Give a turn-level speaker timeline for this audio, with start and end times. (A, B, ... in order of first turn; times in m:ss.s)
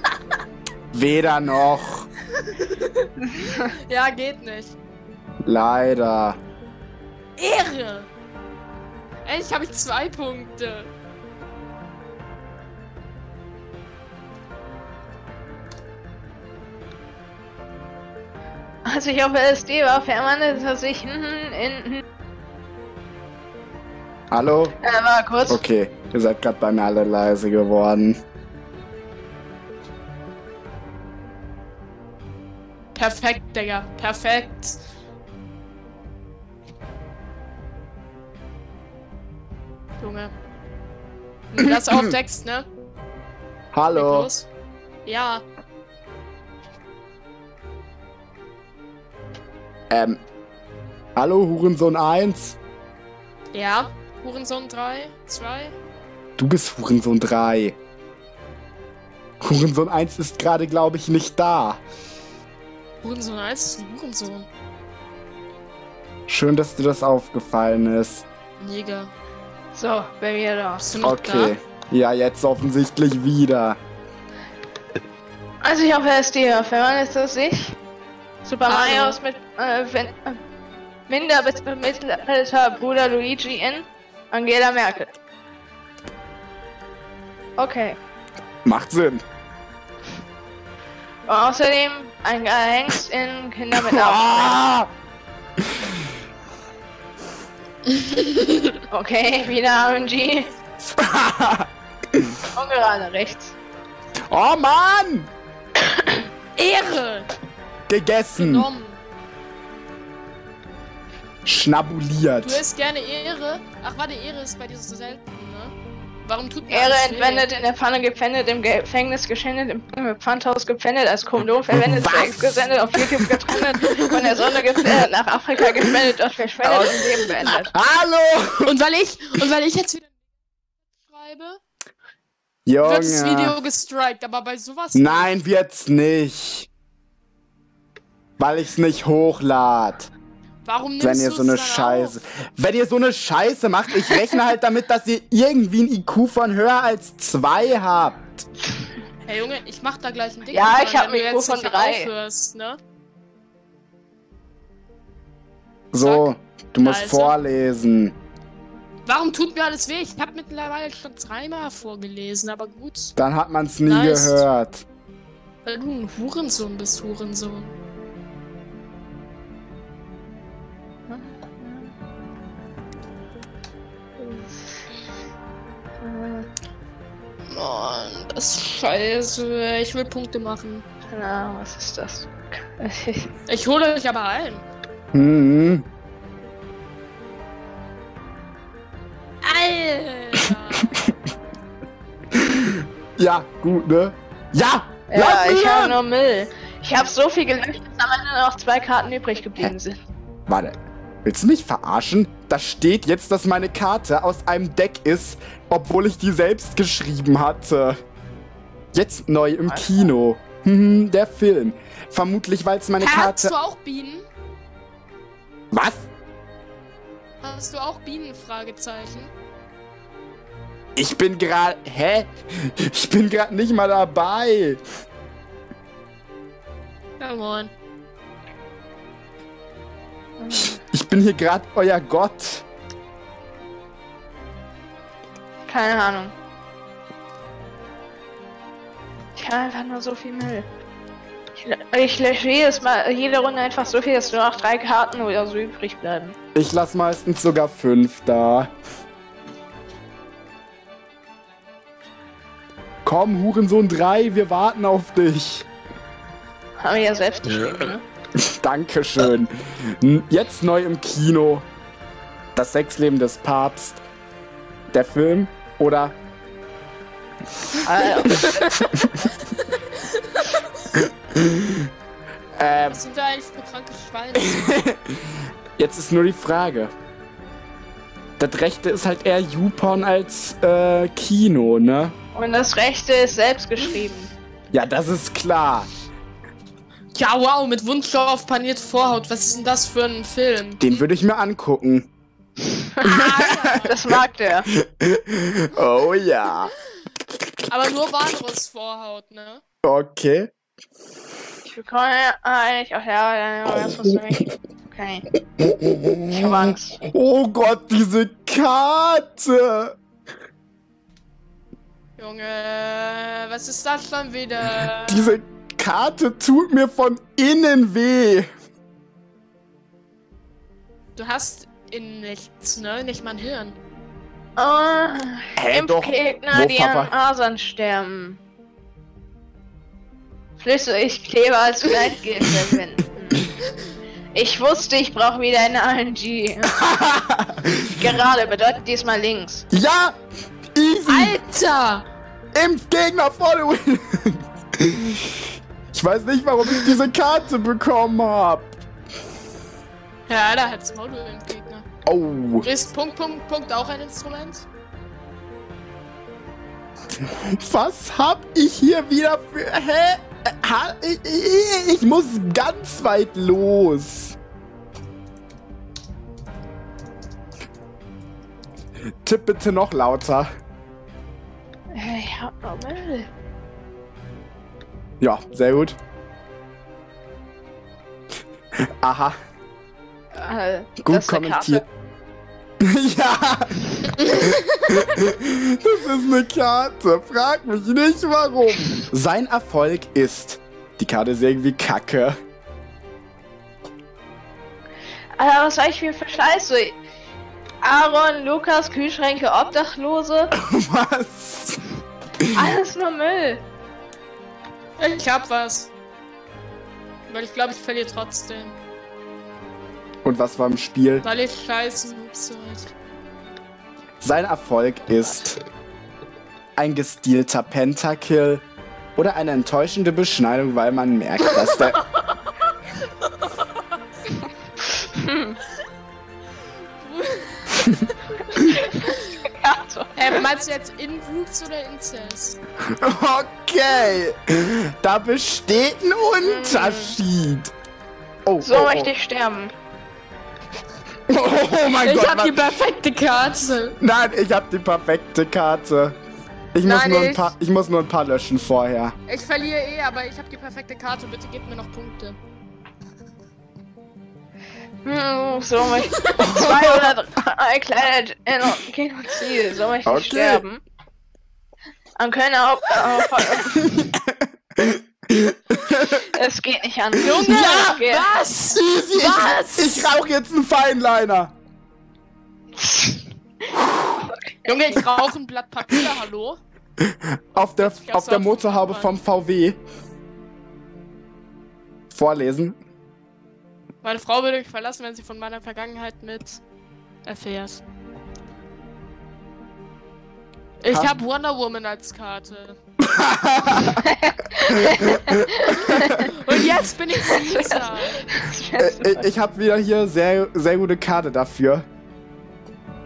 0:00.9-0:02.1 A
0:02.5-0:04.8 B
0:03.4-0:03.7 C
0:05.4-0:06.4 A
0:07.4-0:08.1 B
0:09.2-0:10.9 B
0:18.8-0:22.0 C
0:24.3-0:24.8 A
0:24.8-0:25.6 C
0:25.5-0:28.2 A
0:33.0-0:34.8 B
0:40.0-0:40.3 B
0:41.5-0:42.7 B
0:41.6-0:42.1 A
0:43.7-0:44.3 A
0:43.9-0:44.5 B
0:45.0-0:45.4 B
0:49.9-0:50.2 A
0:51.2-0:52.6 A
0:53.5-0:55.7 B
0:56.4-0:57.8 A
0:59.4-1:01.8 A
1:03.0-1:04.5 B
1:06.3-1:08.2 A
1:08.6-1:09.1 B
1:09.7-1:10.8 C
1:10.8-1:11.6 B
1:11.0-1:13.8 A
1:15.6-1:17.8 C
1:18.4-1:20.4 C
1:18.7-1:19.2 B
1:21.1-1:25.1 C
1:27.6-1:28.0 C
1:28.6-1:29.2 A
1:31.3-1:34.6 C
1:33.8-1:34.9 A
1:35.7-1:36.0 A
1:37.9-1:38.8 B
1:38.9-1:40.5 C
1:41.0-1:42.4 A
1:42.6-1:43.6 C
1:44.3-1:45.3 A
1:46.6-1:47.3 B
1:47.9-1:48.7 A
1:48.4-1:49.0 B
1:51.4-1:52.6 A
1:52.4-1:55.7 B
1:56.2-1:57.5 B
1:56.7-2:07.7 C
2:01.7-2:03.8 A
2:06.6-2:08.7 A
2:08.6-2:10.1 B
2:10.8-2:11.6 B
2:12.7-2:13.6 A
2:12.8-2:15.3 B
2:14.9-2:16.7 A
2:18.4-2:20.1 A
2:20.6-2:22.1 B
2:21.0-2:28.4 A
2:29.3-2:32.8 B
2:30.5-2:32.1 C
2:35.9-2:38.1 A
2:36.0-2:36.3 B
2:36.8-2:37.4 B
2:39.0-2:43.1 B
2:43.2-2:44.8 A
2:43.9-2:44.4 B
2:45.7-2:47.7 B
2:51.1-2:51.9 C
2:54.2-2:54.8 C
2:56.0-2:56.5 C
2:57.5-3:00.8 B
3:01.1-3:03.3 C
3:03.5-3:04.6 B
3:05.1-3:05.9 A
3:09.4-3:11.0 B
3:12.3-3:16.0 A
3:15.1-3:20.0 C
3:20.5-3:28.0 A
3:28.9-3:33.5 A
3:29.7-3:30.1 C
3:33.0-3:34.3 B
3:35.7-3:36.1 A
3:37.4-3:39.3 B
3:41.0-3:44.8 A
3:47.2-3:47.7 B
3:50.4-3:50.8 C
3:50.5-3:52.6 A
3:55.7-3:56.3 C
3:59.4-4:00.7 C
4:01.6-4:06.4 C
4:06.6-4:08.7 A
4:13.0-4:15.7 A
4:16.8-4:18.0 C
4:18.4-4:21.7 A
4:22.6-4:24.0 A
4:24.9-4:26.2 A
4:27.8-4:28.7 C
4:28.3-4:28.6 B
4:28.3-4:29.1 A
4:29.3-4:30.9 B
4:31.3-4:31.9 A
4:32.6-4:33.0 A
4:32.9-4:34.7 B
4:34.4-4:35.0 A
4:35.8-4:36.9 A
4:38.4-4:42.2 A
4:42.3-4:44.3 C
4:44.7-4:45.9 A
4:47.1-4:51.0 B
4:50.8-4:52.1 A
4:52.6-4:53.3 C
4:53.0-4:54.0 B
4:53.4-4:53.9 A
4:53.8-4:54.7 C
4:54.7-4:56.7 A
4:57.7-4:59.6 B
4:59.8-5:00.5 A
5:01.6-5:05.2 C
5:03.7-5:04.2 A
5:05.6-5:10.0 A
5:06.3-5:07.0 C
5:12.2-5:15.4 B
5:15.1-5:18.5 A
5:21.2-5:23.8 B
5:24.6-5:28.4 C
5:25.6-5:27.1 A
5:30.6-5:33.4 C
5:34.3-5:36.7 C
5:36.7-5:38.0 A
5:38.0-5:39.7 C
5:39.7-5:40.2 A
5:40.7-5:41.4 A
5:41.1-5:42.1 B
5:42.6-5:45.4 A
5:45.9-5:48.8 A
5:50.3-5:51.8 B
5:52.0-5:52.7 A
5:52.6-5:54.6 B
5:57.5-6:04.4 A
6:09.2-6:10.5 A
6:11.9-6:13.3 C
6:15.2-6:16.0 A
6:18.8-6:19.4 A
6:20.3-6:21.8 C
6:21.0-6:21.8 A
6:22.8-6:32.4 A
6:24.3-6:24.6 B
6:35.4-6:37.0 C
6:37.8-6:40.5 C
6:40.5-6:41.8 A
6:42.5-6:43.6 C
6:45.0-6:45.9 B
6:47.3-6:48.8 B
6:50.2-6:51.2 A
6:51.2-6:52.9 B
6:54.2-6:55.6 A
6:56.8-6:58.6 A
6:59.2-7:02.0 A
7:01.6-7:03.8 B
7:05.0-7:05.6 C
7:07.0-7:09.4 B
7:07.8-7:08.0 A
7:08.6-7:10.4 C
7:10.2-7:12.6 B
7:12.8-7:17.7 A
7:16.4-7:17.1 C
7:18.4-7:19.1 A
7:18.6-7:19.7 C
7:21.3-7:22.6 A
7:22.0-7:24.0 B
7:24.0-7:26.2 A
7:26.7-7:29.2 A
7:26.8-7:27.5 B
7:29.3-7:32.4 B
7:35.0-7:40.8 C
7:36.3-7:36.6 B
7:36.4-7:37.1 A
7:40.0-7:40.6 A
7:42.2-7:43.9 C
7:43.7-7:46.2 A
7:46.2-7:48.3 C
7:47.2-7:50.0 B
7:47.4-7:48.0 A
7:48.6-7:51.5 A
7:52.7-7:55.0 C
7:54.7-7:56.6 B
7:57.0-7:59.8 A
7:57.8-7:59.1 B
8:02.1-8:02.8 A
8:04.0-8:06.6 B
8:07.2-8:07.8 B
8:10.8-8:12.8 B
8:13.0-8:14.0 A
8:13.9-8:16.3 C
8:14.7-8:16.6 A
8:15.9-8:18.4 B
8:17.2-8:19.3 C
8:18.8-8:21.9 A